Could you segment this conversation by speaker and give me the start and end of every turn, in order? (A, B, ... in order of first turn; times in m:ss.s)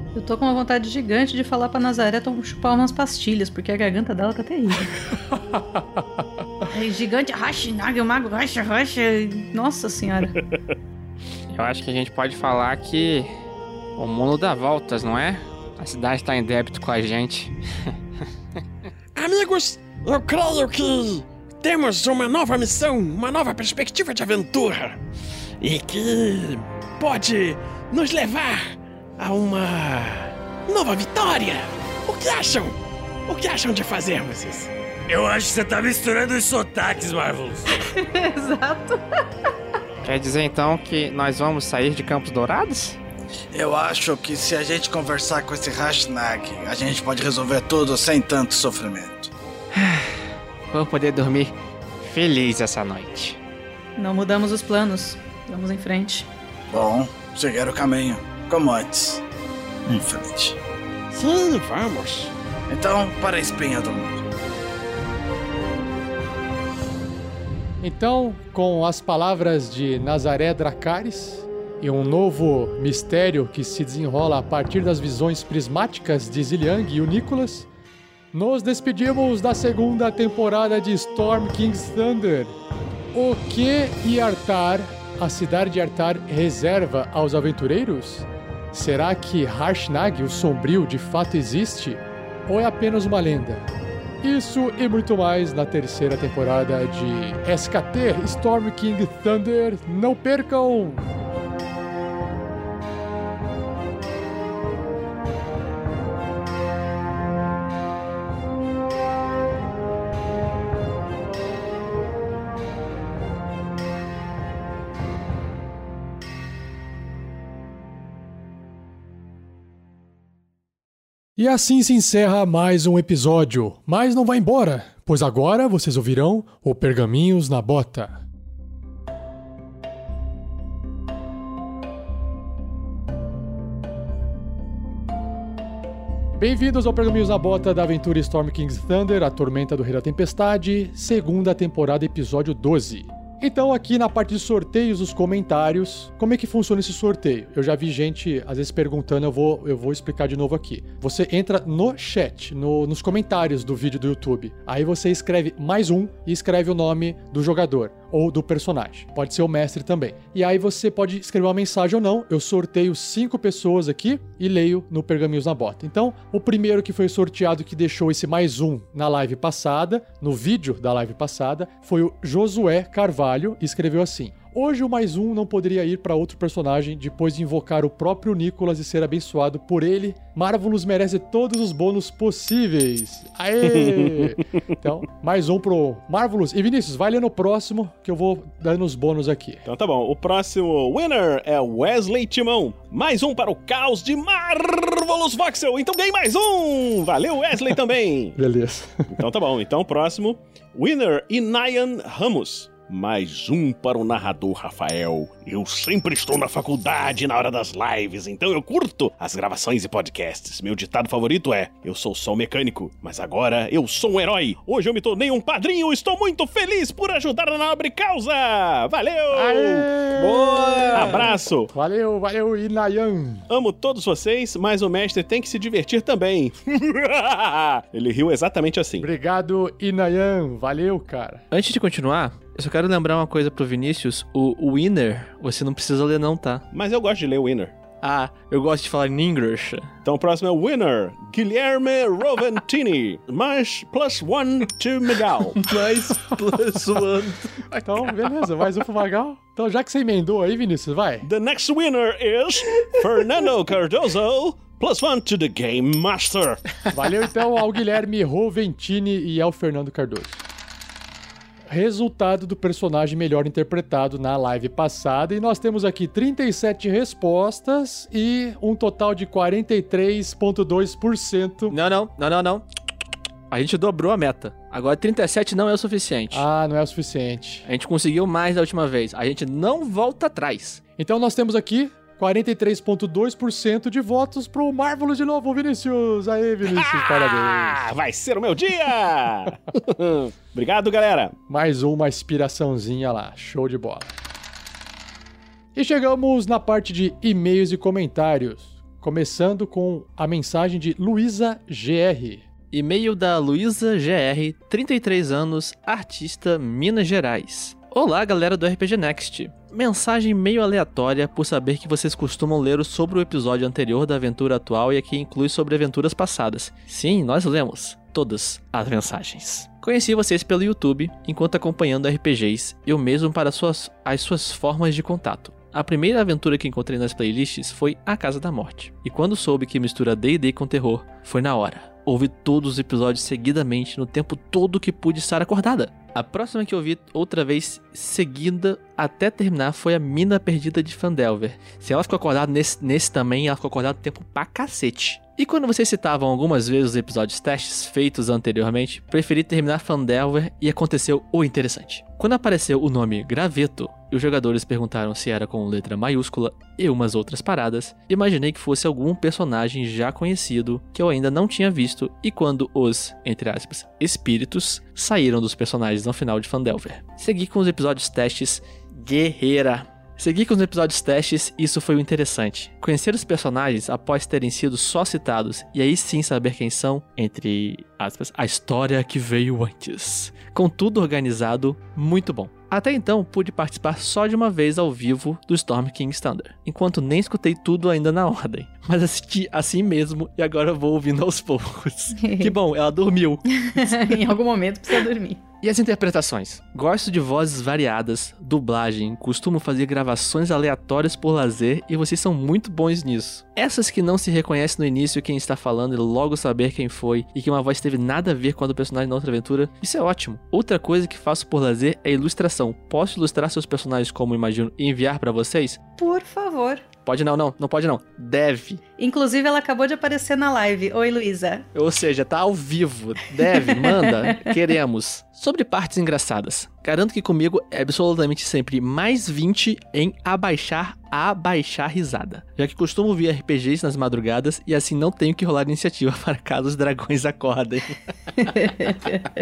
0:00.1-0:04.9 A
0:05.5-0:05.8 B
0:06.7-0:10.3 A
0:11.5-0:13.3 C
0:14.0-0:17.5 C
0:19.2-0:25.0 D
0:25.6-0:32.8 D
0:33.3-0:34.7 D
0:35.1-0:37.7 E
0:37.9-0:39.0 A
0:40.0-0:43.0 C
0:43.5-0:49.3 F
0:49.7-0:53.4 C
0:54.0-0:56.3 A
0:56.7-0:59.2 F
0:59.8-1:00.6 F
1:01.1-1:02.3 D
1:02.7-1:04.2 F
1:07.8-1:17.7 B
1:18.3-1:22.6 B
1:23.1-1:33.6 B
1:34.2-1:41.0 B
2:01.4-2:08.2 B
2:16.4-3:09.6 B
3:03.7-3:04.4 G
3:09.6-3:18.4 G
3:18.4-3:19.2 B
3:19.2-3:41.7 G
3:39.3-3:43.4 B
3:43.5-3:49.0 G
3:49.0-3:51.4 B
3:51.5-3:56.6 H
3:56.7-3:57.7 G
3:58.0-3:59.9 H
4:00.0-4:05.7 G
4:05.7-4:07.4 H
4:07.8-4:11.3 B
4:11.2-4:16.6 G
4:16.9-4:20.4 B
4:21.7-4:31.7 B
4:31.7-4:32.6 H
4:33.5-4:36.5 H
4:36.3-4:37.6 B
4:37.6-4:40.8 H
4:41.0-4:47.8 B
4:46.6-4:51.3 G
4:51.5-4:54.1 B
4:55.7-5:02.4 B
5:02.7-6:34.2 H
6:32.2-6:32.5 A
6:33.6-6:35.4 A
6:35.6-6:55.8 H
6:56.0-6:56.9 A
6:57.0-6:58.8 H
6:59.0-7:01.6 A
7:01.7-7:18.0 H
7:03.5-7:04.4 A